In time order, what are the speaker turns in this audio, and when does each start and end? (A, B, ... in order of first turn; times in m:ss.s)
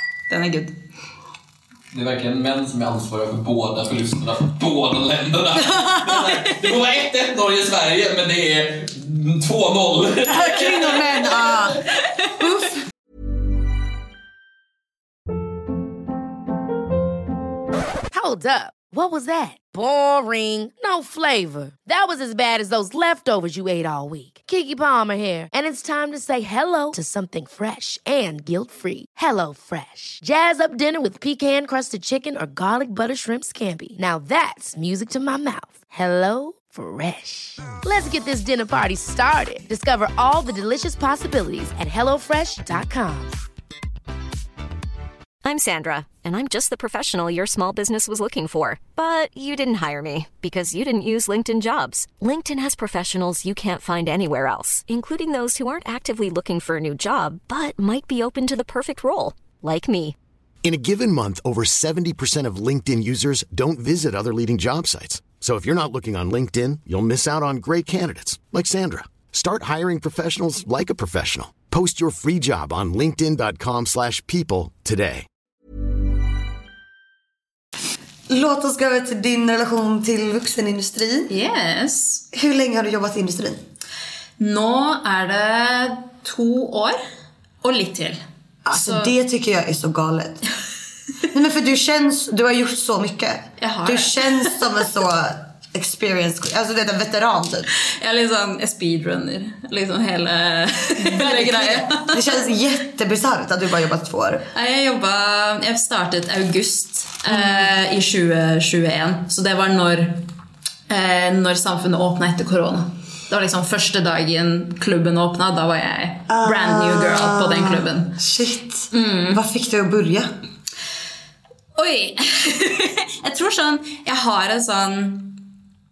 0:00.3-0:00.8 A
0:01.9-0:11.6 B
0:05.6-0:06.4 C
0:10.3-0:11.8 C
0:12.4-0:12.8 C
0:18.1-0:43.4 D
0:45.4-1:00.2 E
1:00.6-1:15.3 F
1:18.3-1:21.3 C
1:21.3-1:22.2 A
1:22.3-1:23.6 C
1:24.4-1:27.0 A
1:27.6-1:29.1 A
1:28.6-1:30.4 C
1:31.3-1:37.7 C
1:33.6-1:34.6 A
1:37.8-1:42.4 A
1:41.0-1:44.4 C
1:44.5-1:50.2 A
1:47.3-1:47.6 C
1:50.9-1:58.2 A
1:56.3-2:00.3 C
1:58.9-1:59.4 A
2:01.8-2:05.4 A